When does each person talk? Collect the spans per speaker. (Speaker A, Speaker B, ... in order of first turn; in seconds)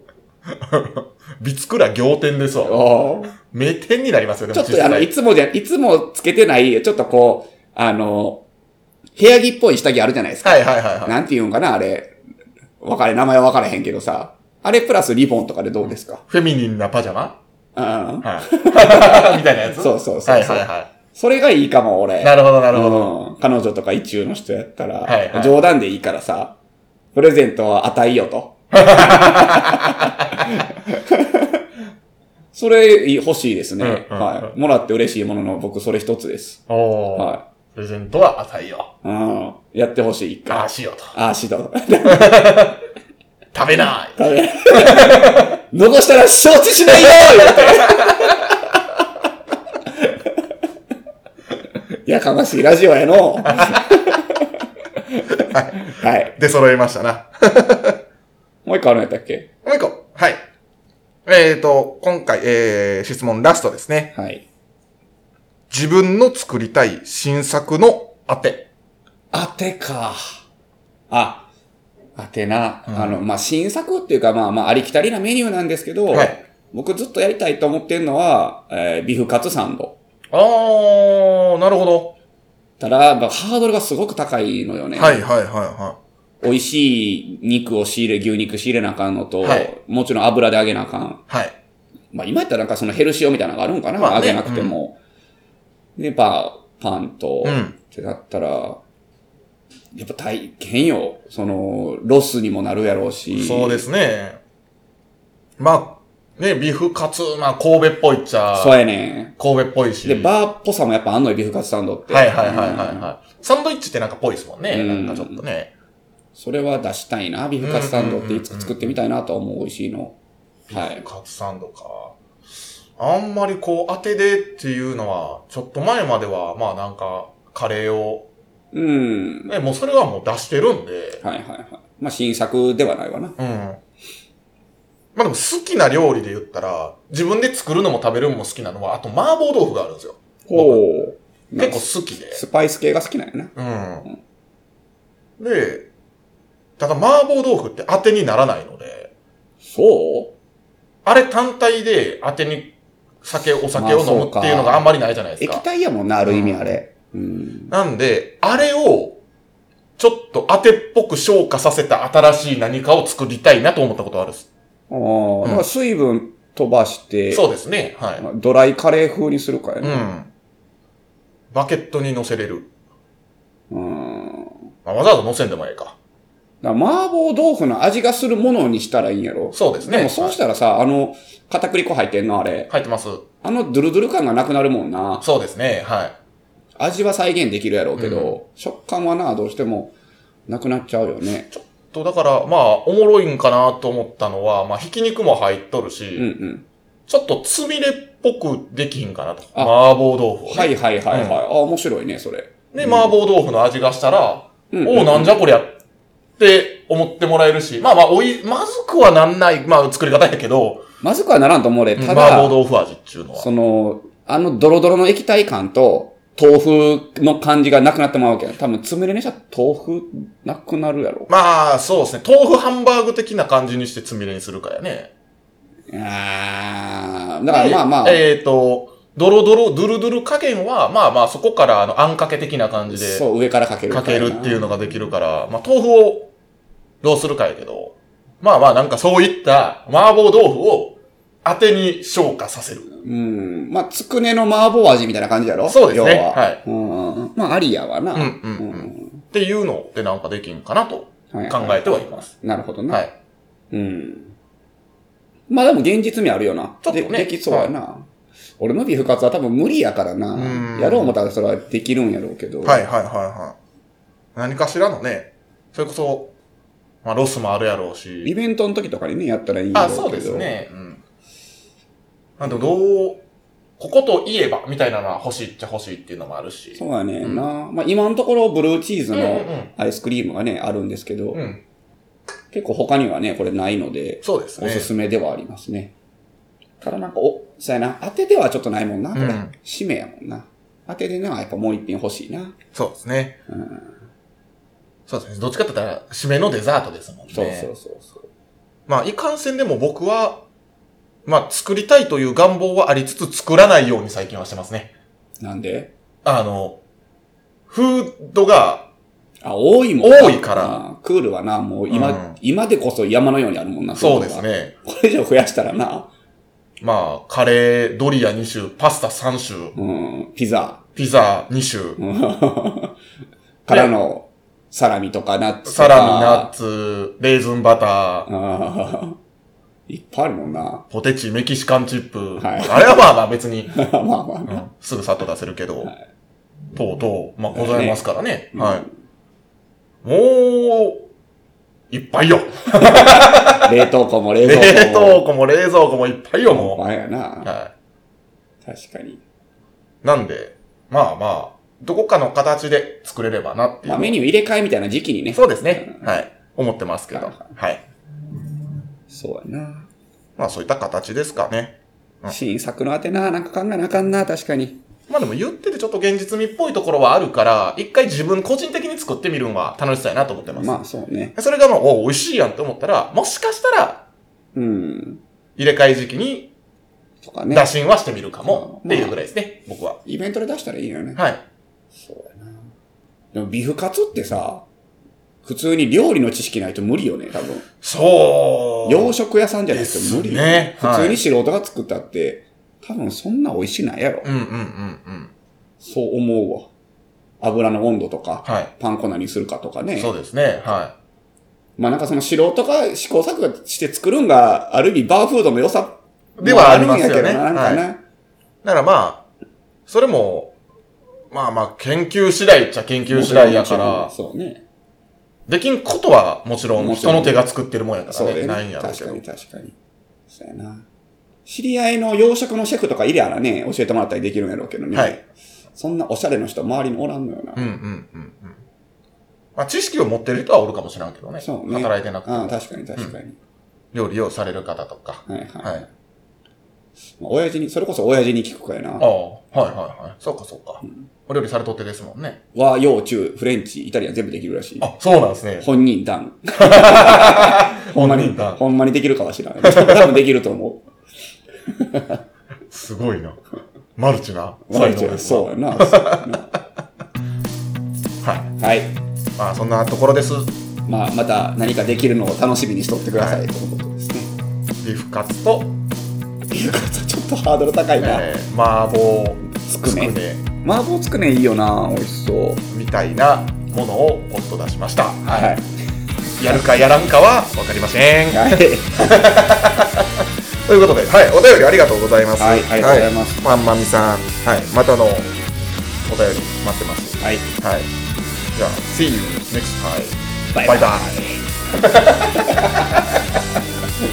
Speaker A: 0.6-5.1, 10.4-11.2, 16.3-17.4, 18.2-20.9, 22.2-23.1, 25.0-25.6, 28.7-30.4, 33.8-34.5, 36.7-38.9, 40.5-41.1, 42.0-42.8, 43.5-45.5, 47.1-48.6, 53.6-54.0, 55.4-58.0, 59.6-60.4, 61.2-64.1, 65.7-68.7, 72.9-73.2, 76.1-76.4, 80.3-82.1, 84.9-86.0, 89.4-89.7, 91.3-91.5, 94.0-94.8, 97.4-97.7, 103.3-104.4, 105.6-108.8, 109.4-110.3, 112.1-115.7, 117.6-119.0, 120.7-122.1, 123.0-128.3, 129.5-131.2, 133.4-133.8, 135.1-140.8, 141.6-142.4, 143.6-144.1, 145.4-145.9, 146.8-149.1, 151.0-155.6, 156.2-156.7, 157.7-159.2, 160.0-164.5, 167.3-168.2, 169.8-170.3, 171.5-172.7, 174.8-175.9, 179.5-180.4, 182.7-183.2, 185.2-186.2, 188.0-188.4, 191.5-196.3, 197.1-201.4, 202.7-205.8, 206.4-210.8, 211.9-213.5, 221.3-225.1, 227.5-233.2, 233.9-236.3, 237.0-242.9, 245.7-246.6, 248.1-252.3, 256.8-257.7, 260.3-261.1, 262.6-263.6, 264.4-266.3, 267.0-268.3, 269.7-271.0, 272.4-273.2, 273.8-277.4, 279.1-279.7, 281.3-281.6, 284.2-284.9, 289.1-289.5, 292.7-293.4, 295.1-297.7, 298.9-300.4, 301.2-304.9, 306.2-306.8, 307.7-308.9, 310.0-310.8, 311.9-312.4, 313.9-314.7, 316.8-319.8, 320.9-322.0, 325.6-328.3, 330.9-333.8, 334.5-335.9, 336.7-338.9, 340.0-341.0, 341.9-343.7, 344.4-346.8, 347.4-347.7, 350.0-354.2, 355.3-357.8, 360.4-362.4, 365.1-370.8, 371.3-374.0, 375.6-376.5, 377.5-380.0, 381.1-381.4, 387.8-389.1, 389.7-391.2, 394.2-395.3, 398.4-398.7, 399.9-400.9, 406.4-407.8, 408.6-409.2, 409.9-410.5, 411.3-414.1, 415.5-419.2, 424.9-425.2, 427.6-428.6, 429.6-433.1, 433.9-435.8, 439.0-442.4, 444.8-445.7, 446.6-448.6, 449.6-450.1, 452.7-453.4, 453.9-456.5, 458.2-458.5, 459.4-460.5, 463.1-463.4, 464.8-465.7, 468.0-470.4, 472.7-475.5, 476.4-480.1, 480.6-485.3, 486.1-487.9, 488.6-493.0
Speaker B: 2.7-3.3, 4.5-8.4, 9.2-12.1, 12.8-16.2, 17.7-26.6, 27.1-31.6, 32.5-36.6, 37.1-37.4, 39.0-42.7, 44.2-48.8, 49.9-50.5, 52.0-56.3, 58.6-59.5, 64.1-64.4, 69.3-70.2, 71.1-71.5, 72.2-79.9, 82.8-85.2, 86.4-91.2, 92.1-95.0, 96.0-98.8, 99.9-103.8, 108.5-109.3, 110.0-113.1, 114.7-115.4, 116.3-120.2, 120.7-121.0, 128.7-129.5, 131.2-133.3, 140.5-143.5, 149.6-150.3, 153.7-157.7, 164.9-167.4, 168.2-170.1, 173.7-174.6, 176.6-182.7, 183.4-185.2, 186.8-189.9, 190.5-191.5, 196.2-196.7, 200.5-203.1, 204.7-205.4, 211.0-212.6, 213.4-221.3, 225.9-228.2, 232.9-234.7, 242.9-249.2, 251.3-253.0, 253.7-254.3, 255.5-258.1, 258.6-262.8, 268.2-270.5, 276.8-281.4, 282.5-285.9, 286.8-292.6, 293.5-293.9, 297.3-298.3, 305.4-305.9, 309.4-316.1, 319.8-320.8, 322.0-322.9, 323.6-326.5, 328.3-329.2, 329.9-330.8, 332.4-333.0, 333.7-334.6, 337.5-338.9, 343.6-345.2, 346.5-347.5, 348.6-349.2, 353.8-356.1, 357.1-357.5, 359.1-359.9, 362.3-364.8, 370.6-371.3, 374.5-375.2, 377.2-377.7, 378.4-379.2, 380.0-381.2, 381.9-382.7, 383.3-384.6, 385.4-387.7, 388.8-394.3, 395.8-396.7, 397.4-400.1, 401.8-408.0, 413.1-414.6, 416.8-417.4, 418.1-419.7, 420.3-420.9, 421.4-425.2, 425.8-427.7, 431.4-433.4, 435.3-435.9, 437.2-439.1, 442.5-444.9, 445.6-450.8, 451.7-452.2, 454.7-456.4, 458.6-458.9, 460.9-464.3, 466.5-468.3, 469.5-472.6, 475.3-475.7, 478.3-479.0, 482.4-483.4, 487.2-487.4, 490.5-491.4, 492.4-492.9